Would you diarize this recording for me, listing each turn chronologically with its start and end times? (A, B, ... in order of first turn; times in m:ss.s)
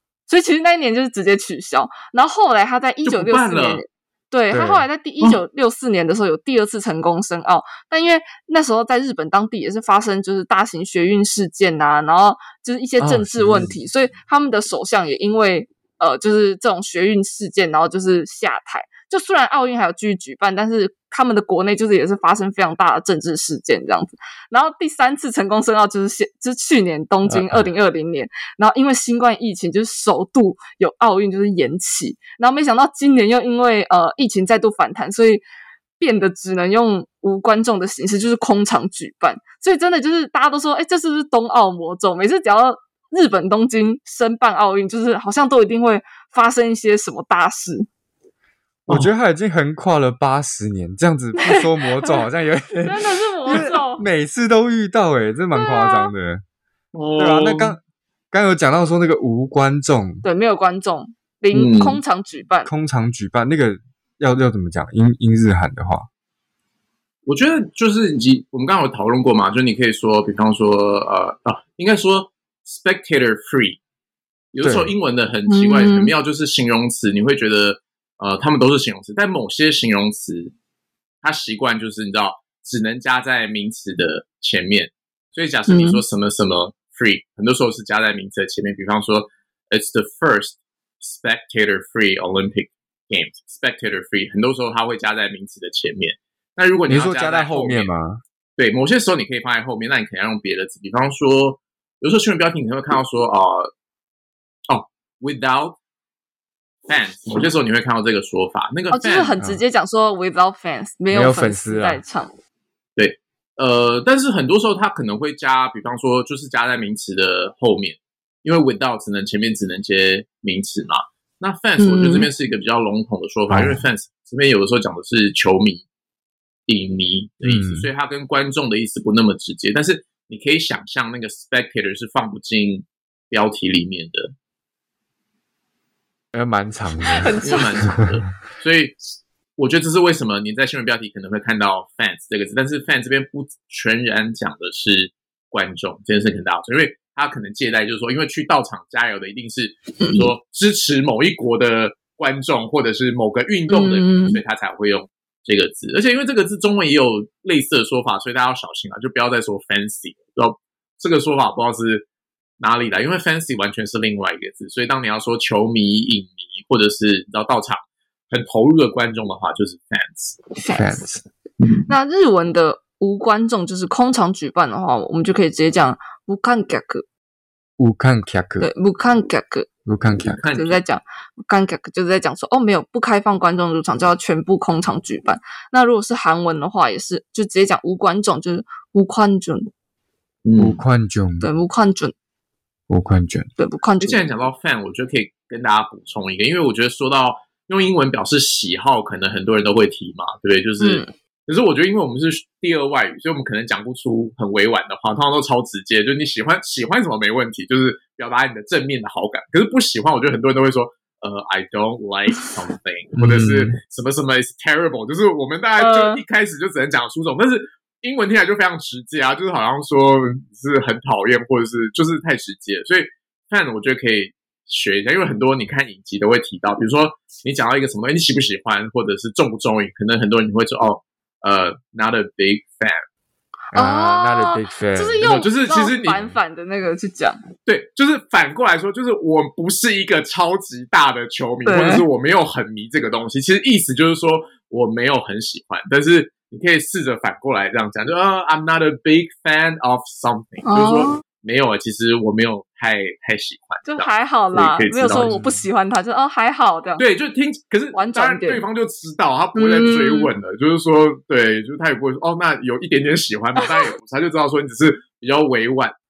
0:00.3-0:35.4 A
0:03.0-0:03.8 B
0:04.5-0:04.8 C
0:13.0-0:13.7 C
0:27.3-0:27.7 C
0:36.0-0:47.9 A
0:48.9-0:56.4 C
0:51.4-0:52.2 A
0:52.8-0:54.0 A
0:55.5-0:56.1 A
0:56.9-0:57.8 B
0:57.2-0:57.8 C
0:58.3-1:00.2 C
1:00.2-1:02.7 A
1:01.5-1:02.0 B
1:02.6-1:06.1 C
1:07.2-1:13.8 B
1:14.5-1:20.5 B
1:14.6-1:14.9 C
1:15.5-1:16.1 A
1:21.2-1:37.9 B
1:25.7-1:26.0 A
1:36.9-1:38.2 C
1:38.6-1:43.7 B
1:44.7-1:45.8 B
1:46.9-1:49.3 B
1:48.9-1:52.3 A
1:51.1-1:52.0 C
1:53.0-2:05.8 B
2:01.8-2:02.3 A
2:03.5-2:03.8 C
2:06.7-2:14.3 B
2:07.4-2:07.9 C
2:16.3-2:18.0 C
2:17.0-2:17.9 A
2:17.4-2:18.9 B
2:19.6-2:42.0 B
2:30.0-2:30.3 A
2:33.7-2:34.4 A
2:42.6-2:50.4 B
2:50.5-2:51.0 A
2:50.7-2:51.2 C
2:51.6-2:51.9 B
2:51.9-2:57.0 A
2:57.8-2:58.7 C
2:58.6-2:59.7 A
2:59.8-3:00.4 C
3:00.1-3:00.8 B
3:00.5-3:09.7 A
3:10.4-3:10.8 B
3:10.6-3:11.5 C
3:11.4-3:12.1 A
3:12.9-3:13.5 C
3:13.6-3:14.2 A
3:14.0-3:53.0 B
3:20.8-3:21.1 A
3:33.2-3:33.8 C
3:35.8-3:36.2 A
3:53.7-3:57.4 A
3:53.7-3:55.2 C
3:55.2-3:56.2 B
3:57.6-4:15.4 B
4:01.6-4:02.0 A
4:10.6-4:11.2 A
4:13.8-4:17.0 A
4:15.2-4:15.6 C
4:17.0-4:25.9 B
4:17.9-4:18.6 A
4:19.5-4:20.3 A
4:23.6-4:23.9 A